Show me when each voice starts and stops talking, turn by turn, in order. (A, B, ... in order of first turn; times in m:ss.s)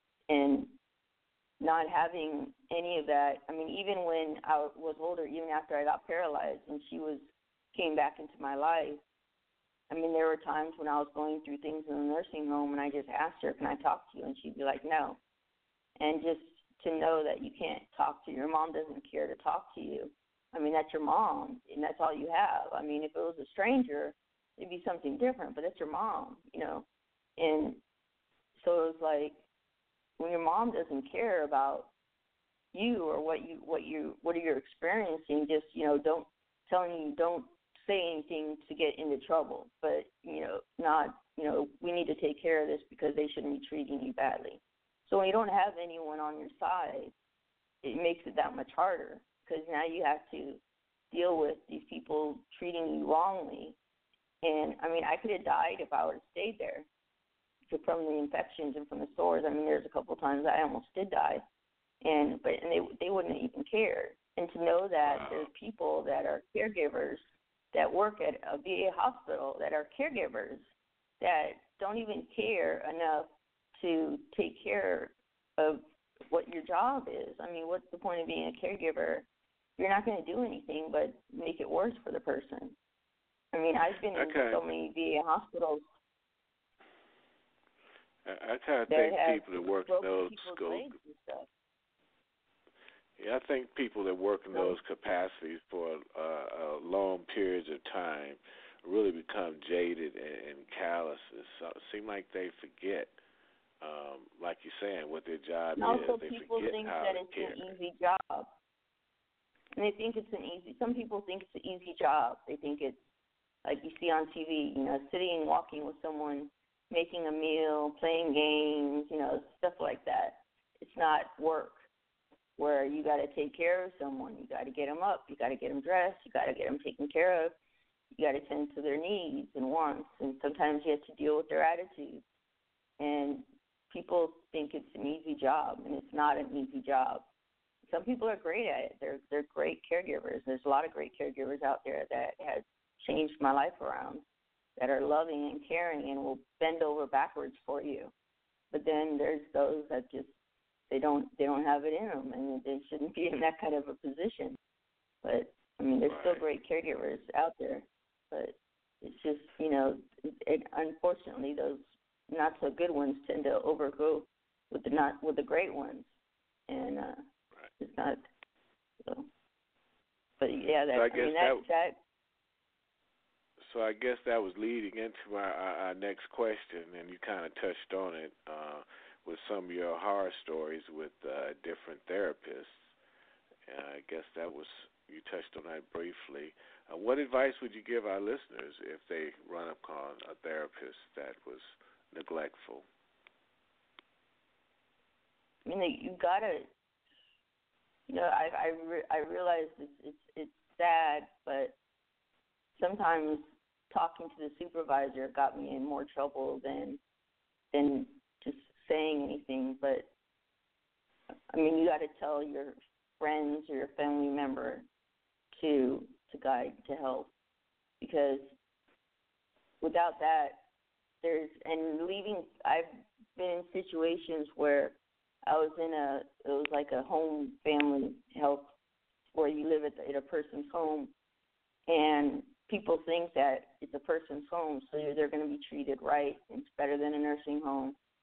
0:00.3-0:00.7 A
0:01.6-0:09.0 A
0:09.9-0:15.2 A
0:16.0-0:26.8 A
0:27.4-0:27.8 A
0:28.6-0:29.4 A
0:30.2-0:31.9 A
0:32.7-0:47.1 A
0:47.8-0:50.6 A
0:51.1-0:53.8 A
0:54.4-0:56.9 A
0:57.7-1:01.4 A
1:02.0-1:10.7 A
1:05.1-1:05.5 B
1:11.2-1:19.3 A
1:19.8-1:22.8 A
1:23.5-1:25.8 A
1:24.2-1:24.6 B
1:28.2-1:31.0 B
1:28.9-1:31.5 A
1:33.2-1:43.2 B
1:43.8-1:47.8 B
1:45.8-1:48.5 A
1:49.8-1:53.0 A
1:53.6-2:01.8 A
2:02.6-2:07.5 A
2:08.2-2:12.2 A
2:13.0-2:17.3 A
2:17.9-2:24.2 A
2:24.8-2:28.1 A
2:28.7-2:30.3 A
2:30.9-2:34.6 A
2:35.2-2:46.1 A
2:36.1-2:36.4 B
2:46.7-2:47.2 A
2:47.8-2:48.2 A
2:49.0-2:49.3 A
2:50.4-2:52.0 A
2:50.9-2:51.6 B
2:53.6-3:02.9 B
3:03.7-3:12.9 B
3:15.7-3:16.7 A
3:18.1-3:21.7 A
3:22.8-3:27.0 A
3:27.7-3:30.1 A
3:31.5-3:34.8 A
3:35.5-3:37.3 A
3:38.0-3:38.5 A
3:39.8-3:40.6 A
3:41.2-3:48.7 A
3:49.4-3:51.1 A
3:51.9-3:58.0 A